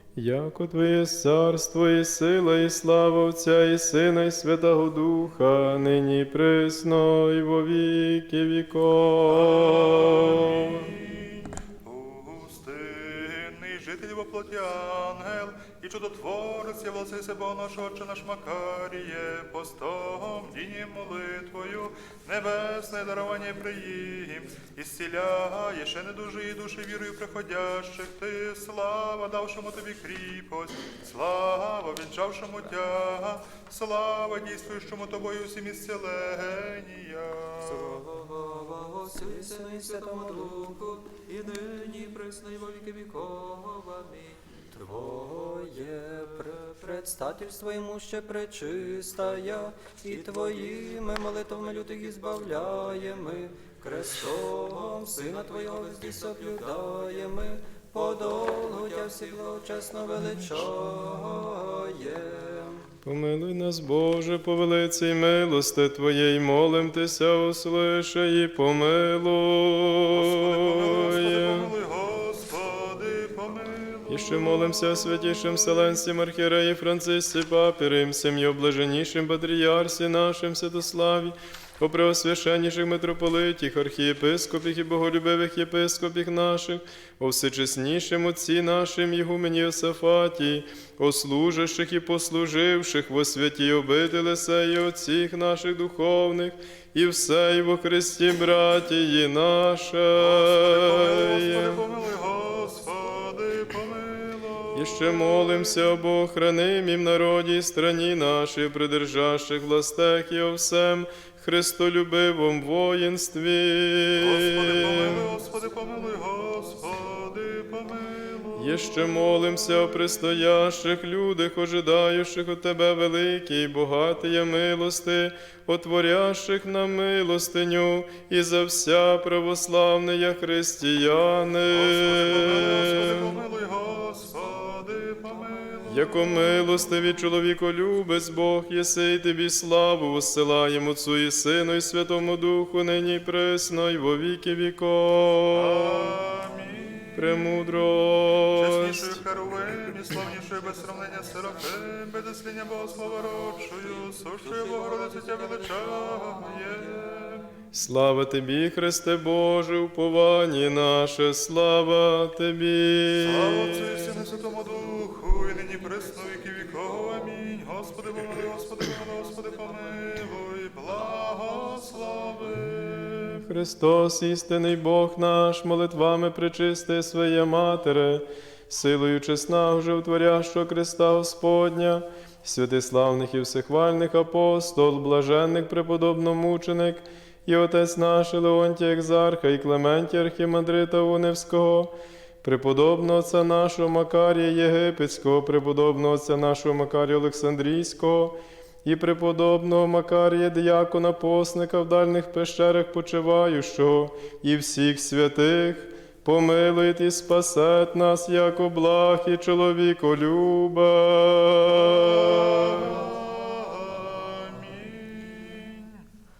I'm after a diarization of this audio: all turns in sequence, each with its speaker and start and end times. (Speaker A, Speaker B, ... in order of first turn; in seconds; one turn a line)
Speaker A: 0.2-10.9
Speaker B: 9.3-38.0
Speaker C: 37.6-44.5
Speaker D: 39.1-40.7
Speaker D: 44.7-62.9
Speaker C: 55.5-56.9
Speaker C: 58.4-59.6
Speaker A: 63.0-71.7
Speaker B: 70.1-75.6
Speaker A: 74.1-101.8
Speaker B: 100.2-105.3
Speaker A: 104.8-115.2
Speaker B: 114.2-120.0
Speaker A: 118.6-133.3
Speaker B: 131.7-136.5
Speaker A: 135.9-146.2
Speaker B: 145.5-147.6
Speaker A: 147.2-149.2
Speaker B: 148.5-157.5
Speaker C: 150.2-151.8
Speaker C: 153.8-157.0
Speaker A: 157.7-164.2
Speaker B: 163.2-173.4
Speaker C: 165.7-167.1
Speaker C: 168.2-170.3
Speaker C: 170.8-172.8
Speaker A: 172.6-212.5
Speaker B: 211.8-216.1